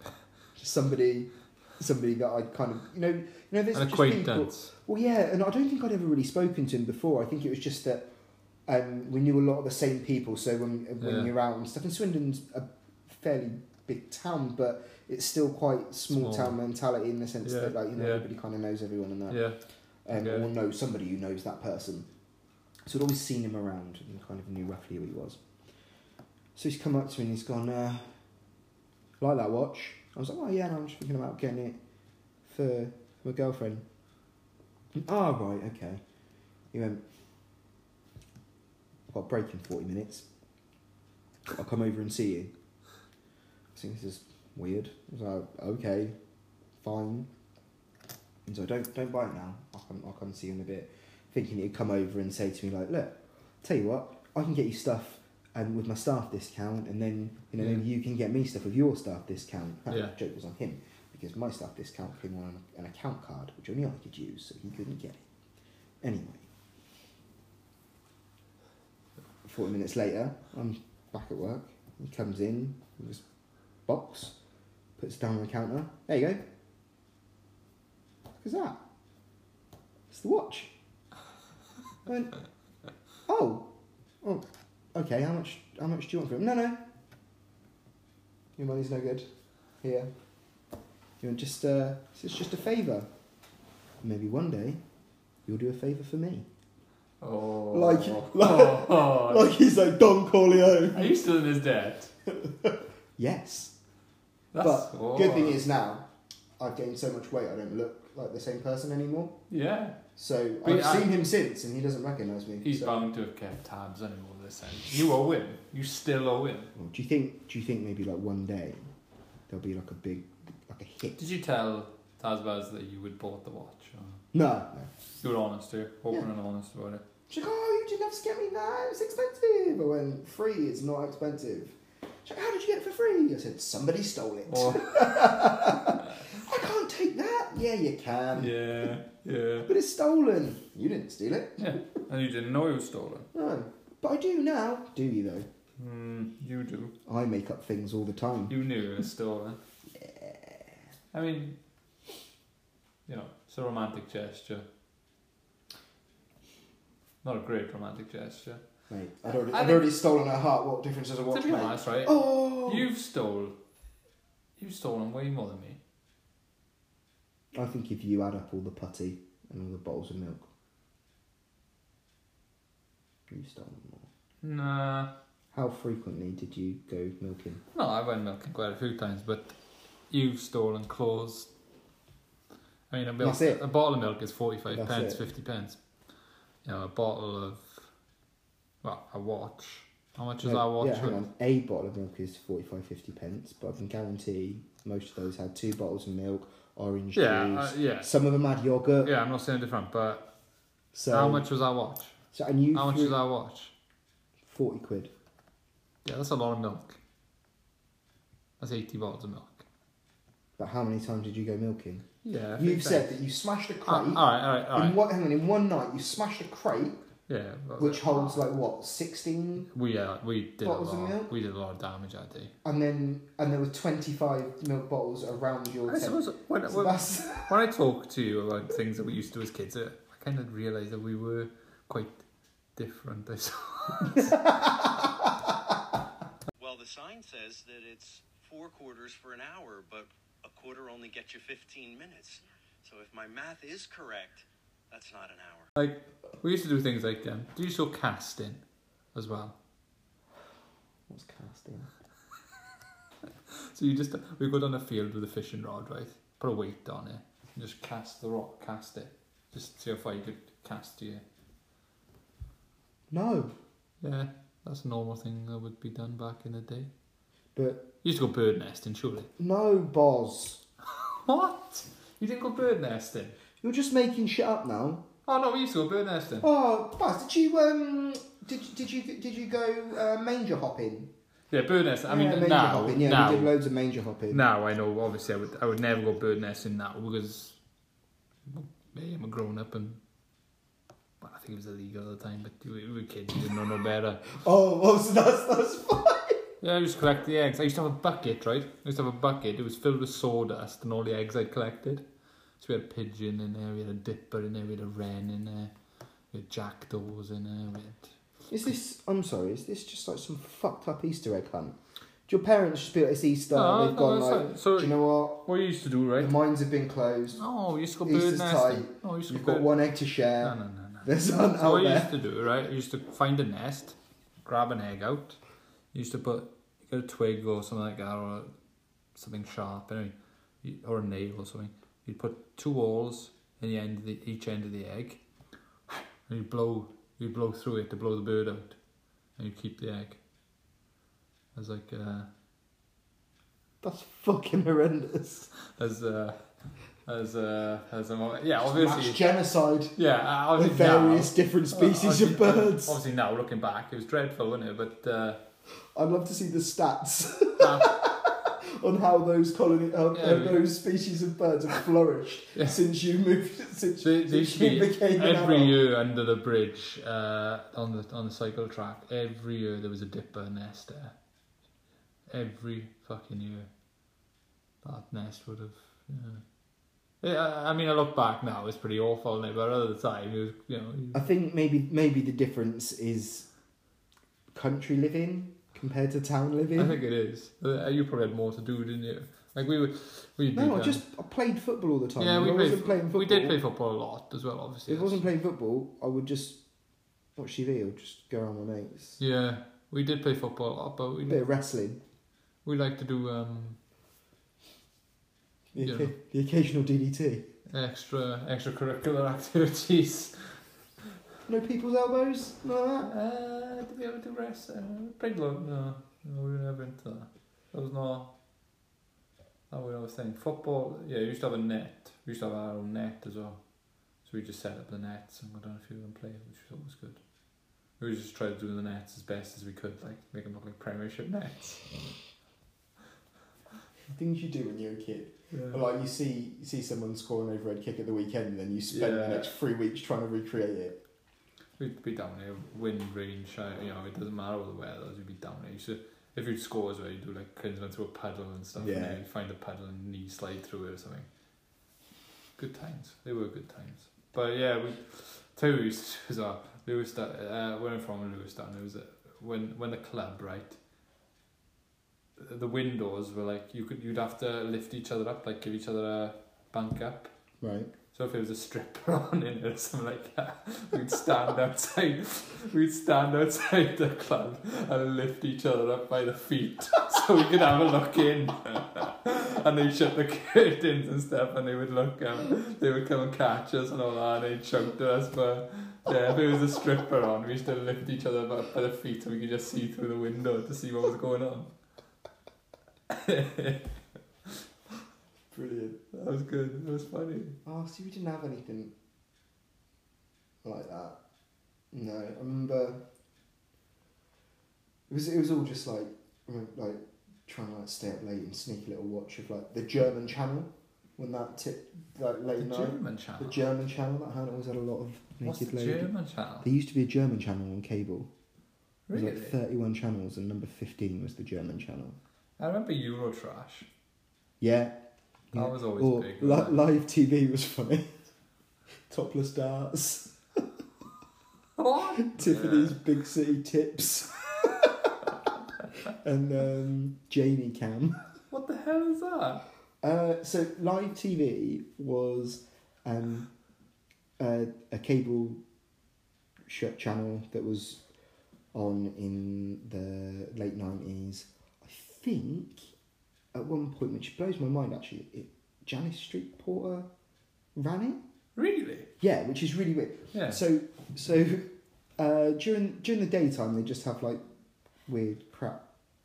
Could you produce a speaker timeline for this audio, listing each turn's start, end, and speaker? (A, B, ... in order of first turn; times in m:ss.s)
0:00.6-0:08.1 A
0:03.7-0:04.7 B
0:08.7-0:19.4 A
0:11.0-0:11.3 B
0:16.1-0:16.6 B
0:17.4-0:18.2 B
0:19.3-0:19.6 B
0:20.0-0:22.1 A
0:20.1-0:20.5 B
0:22.8-0:25.4 A
0:26.5-0:28.2 A
0:29.2-0:31.8 A
0:32.4-0:33.8 A
0:34.9-0:36.0 A
0:36.7-0:37.0 A
0:39.1-0:40.2 A
0:41.5-0:42.5 A
0:43.7-0:46.2 A
0:46.8-0:47.3 A
0:48.4-1:05.2 A
0:57.6-0:57.8 B
0:59.9-1:00.1 B
1:06.0-1:06.5 A
1:09.4-1:13.2 A
1:13.9-1:14.4 A
1:15.0-1:16.4 A
1:18.4-1:18.8 A
1:20.1-1:20.7 A
1:22.0-1:22.3 A
1:23.3-1:26.9 A
1:28.6-1:29.3 A
1:29.8-1:30.1 A
1:31.2-1:33.1 A
1:34.0-1:34.8 A
1:35.4-1:36.5 A
1:37.2-1:39.5 B
1:37.7-1:41.2 A
1:40.9-1:42.1 B
1:42.3-1:43.8 A
1:44.5-1:45.6 B
1:44.6-1:49.4 A
1:49.5-1:50.0 B
1:50.1-1:53.1 A
1:50.6-1:51.1 B
1:52.6-1:56.7 B
1:56.7-1:58.9 A
1:59.5-2:01.2 A
2:01.2-2:04.2 B
2:04.3-2:04.9 A
2:05.2-2:07.0 B
2:07.3-2:18.6 A
2:14.5-2:15.7 B
2:18.3-2:19.7 B
2:19.6-2:21.8 A
2:21.6-2:23.3 B
2:23.3-2:25.5 A
2:25.8-2:26.9 B
2:27.0-2:28.5 A
2:28.5-2:29.6 B
2:30.0-2:30.6 A
2:31.1-2:31.6 B
2:33.1-2:34.6 B
2:37.2-2:38.6 B
2:38.9-2:42.9 A
2:39.3-2:39.8 B
2:41.3-2:43.6 B
2:44.6-2:45.8 B
2:47.5-2:50.5 A
2:53.3-2:54.0 A
2:54.4-2:55.1 B
2:55.5-2:57.6 A
2:57.7-2:59.6 B
3:00.1-3:01.5 B
3:02.9-3:05.8 B
3:03.2-3:03.6 A
3:04.7-3:05.2 A
3:06.6-3:07.9 B
3:08.8-3:11.2 B
3:10.4-3:19.1 A
3:17.1-3:18.1 B
3:19.0-3:20.3 B
3:20.9-3:21.5 A
3:21.1-3:22.1 B
3:22.3-3:23.2 A
3:22.7-3:23.7 B
3:24.4-3:25.1 A
3:26.0-3:27.0 B
3:28.6-3:29.6 B
3:30.6-3:37.0 A
3:32.2-3:33.1 B
3:33.8-3:35.0 B
3:37.3-3:38.5 B
3:37.8-3:39.7 A
3:39.7-3:42.5 B
3:40.6-3:41.3 A
3:42.6-3:47.5 A
3:45.9-3:52.2 B
3:52.8-3:54.5 B
3:54.2-3:55.3 A
3:56.6-4:05.6 C
4:05.8-4:08.6 B
4:09.1-4:09.6 B
4:11.1-4:11.9 A
4:13.7-4:21.2 B
4:23.1-4:23.5 A
4:24.0-4:26.9 B
4:27.5-4:27.9 A
4:28.0-4:29.3 B
4:29.4-4:30.6 A
4:30.9-4:33.4 B
4:33.6-4:35.1 A
4:35.2-4:36.5 B
4:36.4-4:41.1 A
4:41.5-4:43.5 B
4:42.1-4:44.4 A
4:44.3-4:47.6 B
4:48.5-4:50.0 B
4:51.2-4:54.3 B
4:54.4-4:56.4 A
4:56.6-5:02.0 B
5:02.6-5:05.7 B
5:06.3-5:08.1 B
5:08.5-5:15.5 A
5:13.5-5:16.4 B
5:16.2-5:17.4 A
5:17.4-5:19.7 B
5:18.0-5:22.1 A
5:20.4-5:25.4 B
5:25.9-5:28.5 B
5:29.1-5:35.2 B
5:35.9-5:38.8 B
5:39.4-5:40.2 B
5:41.5-5:42.3 B
5:43.8-5:45.5 A
5:45.7-5:46.5 B
5:47.0-5:49.2 B
5:48.6-5:50.0 A
5:49.9-5:55.4 B
5:50.6-5:53.0 A
5:55.9-6:05.8 A
5:57.6-5:58.0 B
6:00.1-6:00.7 B
6:04.0-6:11.1 B
6:12.3-6:13.7 B
6:14.8-6:16.4 B
6:17.2-6:21.2 B
6:21.1-6:23.5 A
6:24.5-6:27.0 A
6:26.8-6:31.0 B
6:30.5-6:33.6 A
6:32.2-6:35.2 B
6:34.9-6:36.6 A
6:37.4-6:39.2 A
6:39.2-6:41.4 B
6:41.3-6:42.0 A
6:42.6-6:43.8 B
6:45.7-6:47.5 A
6:45.8-6:46.1 B
6:47.7-6:50.6 B
6:51.4-6:53.1 A
6:53.0-6:58.3 B
6:59.7-7:03.6 B
7:04.2-7:07.2 B
7:08.0-7:11.8 B
7:14.1-7:21.0 A
7:15.5-7:15.8 B
7:18.9-7:19.5 B
7:21.8-7:31.3 B
7:28.8-7:29.2 A
7:32.6-7:40.8 B
7:42.4-7:47.3 B
7:47.6-7:47.9 A
7:48.1-8:11.7 B
8:13.1-8:13.9 B
8:15.5-8:16.0 A
8:16.1-8:17.6 B
8:17.6-8:18.9 A
8:20.6-8:21.2 A
8:21.9-8:23.0 A
8:25.1-8:36.1 A
8:32.6-8:33.6 B
8:35.4-8:36.7 B
8:36.6-8:38.3 A
8:39.1-8:39.6 B
8:39.1-8:42.2 A
8:42.6-8:43.9 B
8:44.6-8:48.1 A
8:45.5-8:46.8 B
8:49.1-8:50.6 A
8:51.8-8:53.0 B
8:52.2-8:55.1 A
8:56.0-8:58.2 A
8:58.5-8:59.6 B
9:00.0-9:03.5 A
9:04.4-9:05.6 A
9:06.7-9:08.0 A
9:08.7-9:12.9 A
9:13.5-9:17.1 A
9:17.7-9:18.2 A
9:18.6-9:19.1 B
9:19.2-9:24.4 A
9:20.3-9:20.6 B
9:25.0-9:25.8 A